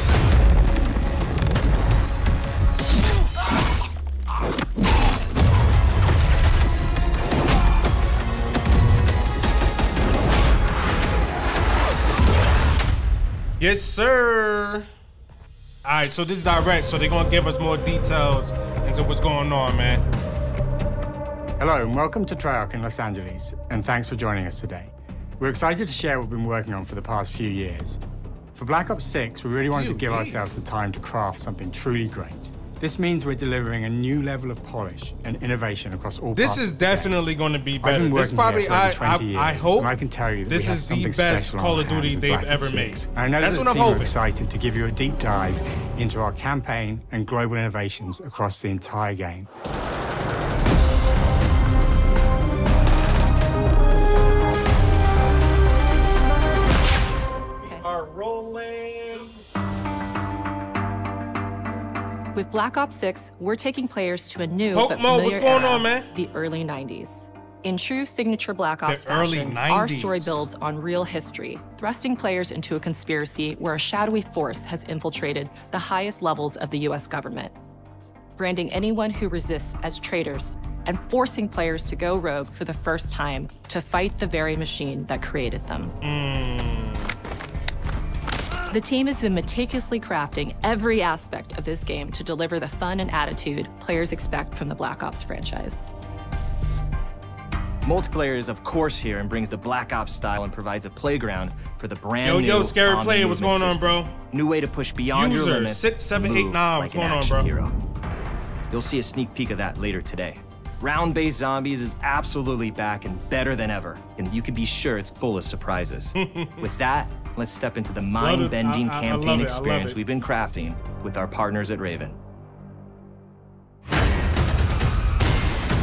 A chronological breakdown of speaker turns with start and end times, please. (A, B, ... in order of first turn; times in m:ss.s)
0:13.6-0:14.9 A
0:15.8-0:20.0 A
0:21.6-0:28.0 B
0:28.5-0:37.1 B
0:29.7-0:30.4 A
0:36.3-0:44.1 A
0:37.8-0:49.5 B
1:02.3-1:17.5 C
1:04.7-1:06.1 A
1:08.8-1:10.4 A
1:18.4-1:26.0 C
1:26.0-1:27.1 A
1:28.7-1:35.9 C
1:37.8-1:47.7 D
1:42.2-1:44.2 A
1:45.1-1:47.5 A
1:48.7-2:02.2 D
1:56.2-1:56.7 A
1:58.2-2:00.0 A